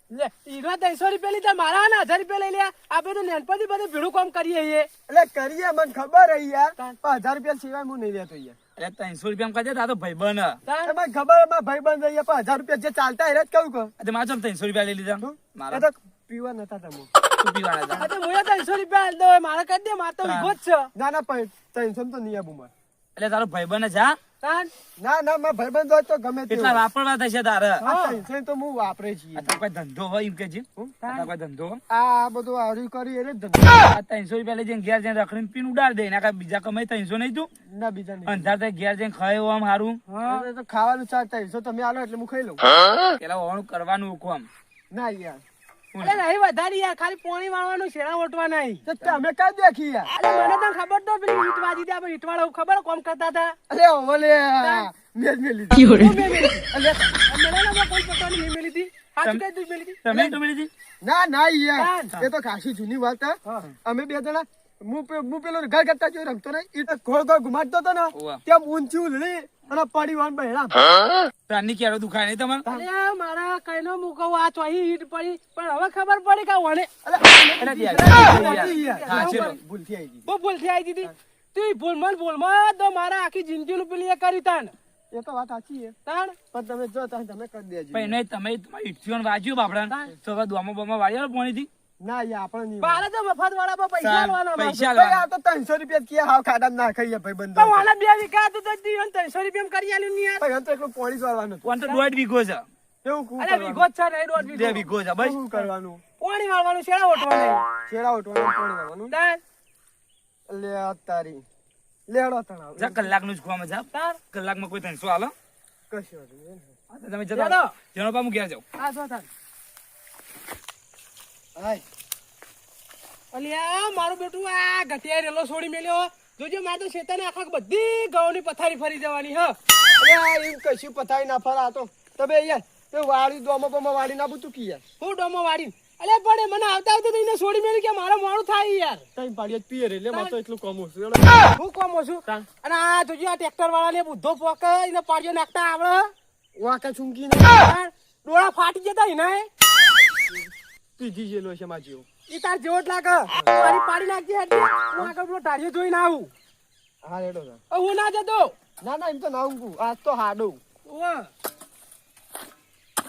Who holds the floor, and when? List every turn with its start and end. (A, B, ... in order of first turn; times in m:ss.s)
0:00.1-0:04.9 A
0:05.1-0:08.6 B
0:08.8-0:10.6 C
0:10.6-0:10.9 A
0:10.8-0:13.9 B
0:14.0-0:15.8 C
0:15.2-0:17.1 B
0:17.4-0:18.1 C
0:17.9-0:20.9 A
0:20.2-0:20.5 C
0:20.9-0:22.7 B
0:23.2-0:24.2 C
0:24.4-0:24.7 A
0:25.0-0:26.8 B
0:26.5-0:27.8 C
0:27.8-0:28.2 A
0:27.8-0:29.5 B
0:29.3-0:31.8 C
0:31.0-0:31.3 A
0:31.9-0:33.8 B
0:33.9-0:37.5 C
0:37.7-0:38.5 B
0:38.2-0:40.0 C
0:40.1-0:40.5 A
0:40.2-0:42.6 B
0:43.2-0:44.5 C
0:44.9-0:45.4 B
0:45.9-0:46.2 C
0:46.0-0:48.8 A
0:48.8-0:50.1 B
0:50.1-0:53.6 A
0:53.7-0:55.9 B
0:54.6-0:54.9 A
0:55.8-0:56.6 A
0:56.7-0:57.1 B
0:57.2-1:00.4 A
1:00.0-1:00.7 C
1:01.0-1:10.8 B
1:01.8-1:02.2 A
1:03.4-1:03.7 A
1:08.1-1:08.4 C
1:11.5-1:12.6 C
1:12.7-1:16.9 A
1:17.0-1:20.3 B
1:17.6-1:19.6 C
1:17.9-1:19.5 A
1:20.2-1:24.7 A
1:25.1-1:25.9 B
1:26.0-1:26.4 A
1:26.5-1:28.2 B
1:27.9-1:31.7 C
1:29.8-1:30.1 A
1:32.0-1:33.0 B
1:32.8-1:34.9 A
1:34.0-1:35.2 C
1:34.9-1:37.9 B
1:37.5-1:40.4 A
1:40.4-1:41.6 B
1:41.6-1:42.6 C
1:43.0-1:43.9 B
1:43.4-1:44.9 A
1:44.4-1:45.4 C
1:45.2-1:46.0 B
1:46.2-1:47.6 A
1:47.9-1:49.1 B
1:49.1-1:49.4 A
1:50.5-1:51.4 B
1:52.1-1:53.1 B
1:52.8-1:55.3 C
1:53.9-1:54.2 A
1:55.9-1:56.7 B
1:56.9-1:58.6 C
1:57.3-1:57.7 A
1:58.8-1:59.3 A
2:01.6-2:01.8 B
2:03.3-2:09.6 A
2:10.0-2:14.8 B
2:15.0-2:19.0 A
2:19.2-2:21.4 B
2:21.5-2:26.1 A
2:26.6-2:27.6 B
2:27.5-2:29.5 A
2:31.0-2:32.0 B
2:32.3-2:36.3 A
2:37.0-2:37.6 B
2:37.7-2:38.5 A
2:38.8-2:40.6 B
2:40.8-2:41.3 A